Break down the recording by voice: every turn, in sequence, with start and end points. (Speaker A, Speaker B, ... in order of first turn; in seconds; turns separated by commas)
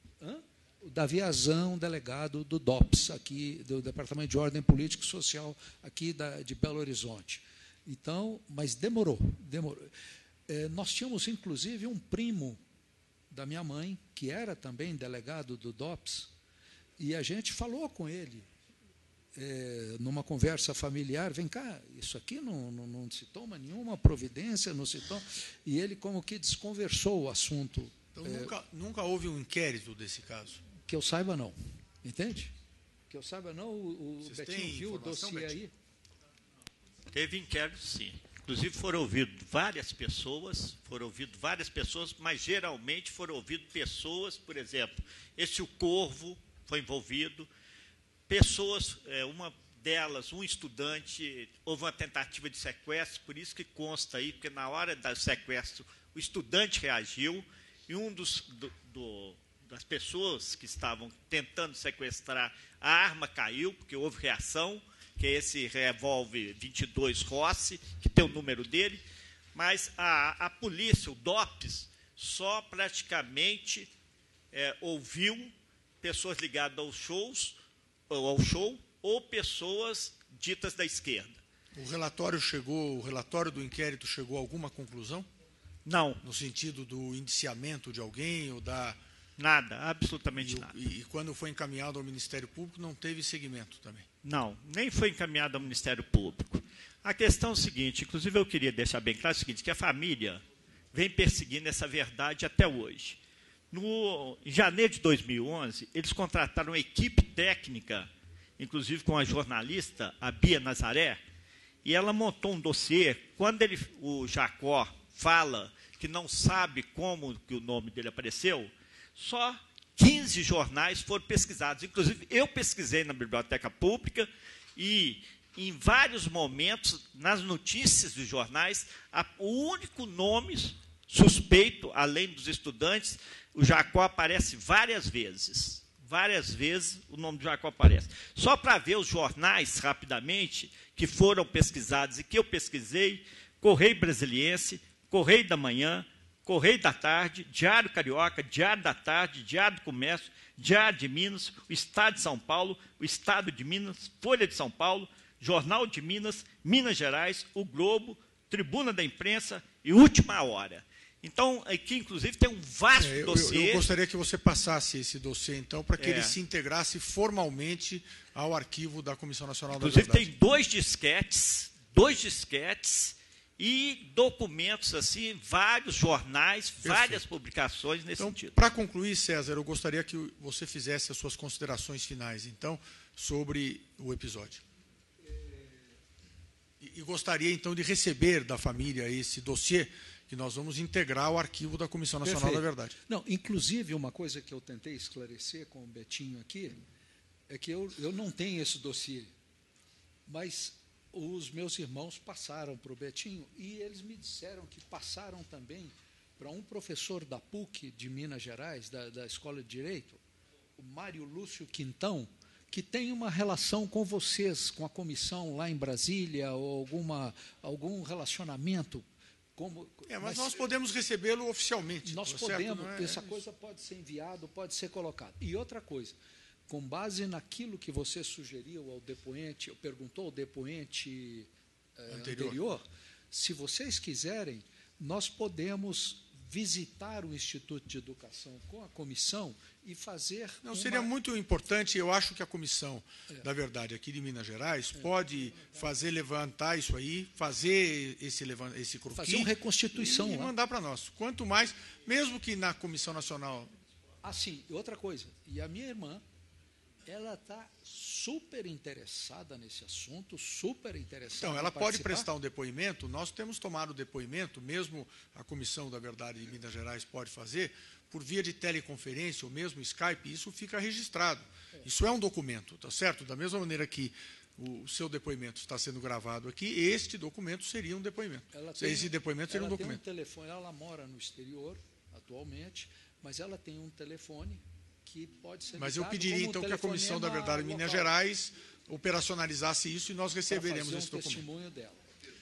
Speaker A: 0.2-9.9, Speaker A: 10.5-12.6, Speaker A: 13.3-16.3, Speaker A: 17.0-18.5, Speaker A: 19.3-28.5, Speaker B: 28.1-30.6, Speaker A: 30.8-32.5, Speaker A: 33.1-35.7, Speaker B: 34.2-35.6, Speaker C: 37.1-47.5, Speaker C: 48.3-69.0, Speaker C: 69.5-73.9, Speaker C: 74.5-77.6, Speaker C: 78.1-81.4, Speaker B: 81.7-85.3, Speaker C: 85.8-86.2, Speaker B: 86.2-89.0, Speaker C: 89.4-90.7, Speaker B: 90.3-94.0, Speaker C: 94.2-103.2, Speaker C: 103.7-111.2, Speaker C: 111.8-163.9, Speaker B: 162.9-170.3, Speaker C: 166.0-166.4, Speaker C: 169.7-178.6, Speaker B: 176.8-177.2, Speaker B: 178.2-184.6, Speaker A: 185.3-185.7, Speaker B: 186.8-192.9, Speaker A: 192.2-196.8, Speaker A: 197.5-199.3, Speaker A: 200.2-210.2, Speaker A: 210.8-220.6, Speaker B: 220.1-223.3, Speaker A: 222.0-226.2, Speaker A: 226.7-241.1, Speaker B: 232.1-232.6, Speaker B: 240.6-253.7, Speaker A: 244.9-245.9, Speaker A: 249.2-250.5, Speaker A: 254.2-256.2, Speaker A: 257.1-262.3, Speaker B: 261.4-280.0, Speaker A: 278.5-288.1, Speaker B: 285.8-291.4, Speaker A: 290.5-292.0